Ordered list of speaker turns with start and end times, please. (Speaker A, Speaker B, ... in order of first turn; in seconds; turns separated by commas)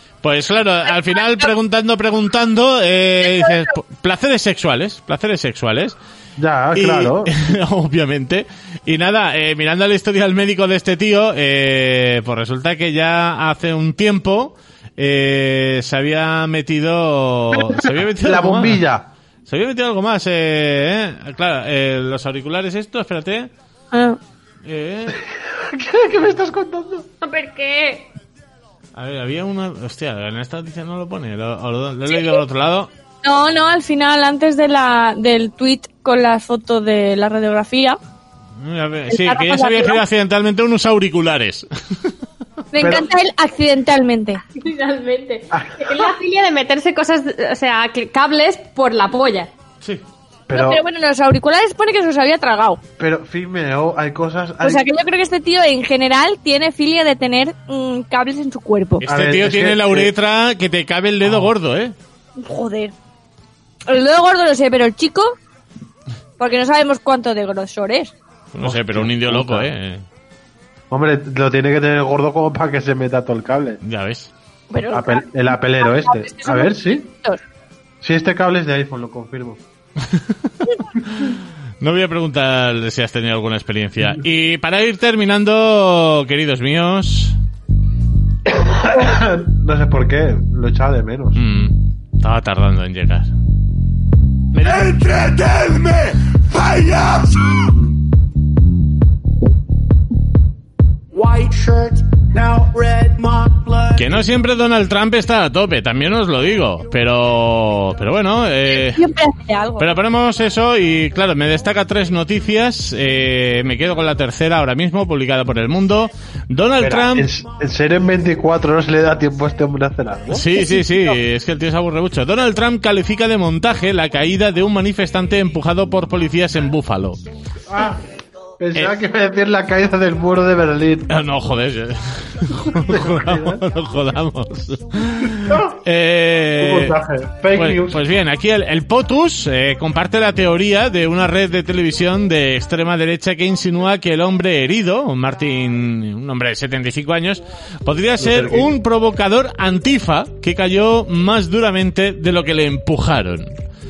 Speaker A: 0.2-6.0, Speaker B: 3.2-3.7, Speaker C: 6.4-7.4, Speaker A: 6.8-18.8, Speaker C: 17.6-19.1, Speaker A: 19.5-23.5, Speaker B: 23.9-24.2, Speaker A: 24.6-25.2, Speaker C: 25.1-27.1, Speaker D: 27.2-28.1, Speaker A: 28.9-32.9, Speaker B: 33.2-38.0, Speaker A: 38.6-42.1, Speaker B: 39.1-40.0, Speaker B: 42.7-44.4, Speaker C: 42.8-43.1, Speaker D: 44.6-49.5, Speaker C: 45.5-46.1, Speaker C: 50.5-50.8, Speaker B: 50.5-52.8, Speaker C: 53.0-54.9, Speaker B: 54.6-59.0, Speaker A: 59.0-62.0, Speaker C: 59.0-60.1, Speaker B: 62.4-62.9, Speaker B: 63.9-65.4, Speaker B: 66.4-68.1, Speaker A: 68.5-70.0, Speaker C: 68.6-69.7, Speaker C: 70.9-73.8, Speaker A: 73.8-74.3, Speaker B: 74.7-77.4, Speaker C: 74.9-77.1, Speaker C: 78.0-79.6, Speaker A: 80.0-87.4, Speaker C: 88.5-91.4, Speaker A: 91.3-93.3, Speaker A: 94.5-97.2, Speaker C: 97.5-97.8, Speaker E: 101.2-103.9, Speaker A: 104.0-109.0, Speaker B: 108.7-109.9, Speaker A: 109.8-117.3, Speaker C: 116.8-120.6, Speaker A: 120.3-127.2, Speaker B: 120.5-120.8, Speaker C: 127.7-128.0, Speaker C: 128.6-131.1, Speaker A: 131.1-136.9, Speaker C: 132.7-133.7, Speaker C: 135.4-135.8, Speaker C: 136.6-138.1, Speaker A: 137.6-153.5, Speaker C: 148.2-148.7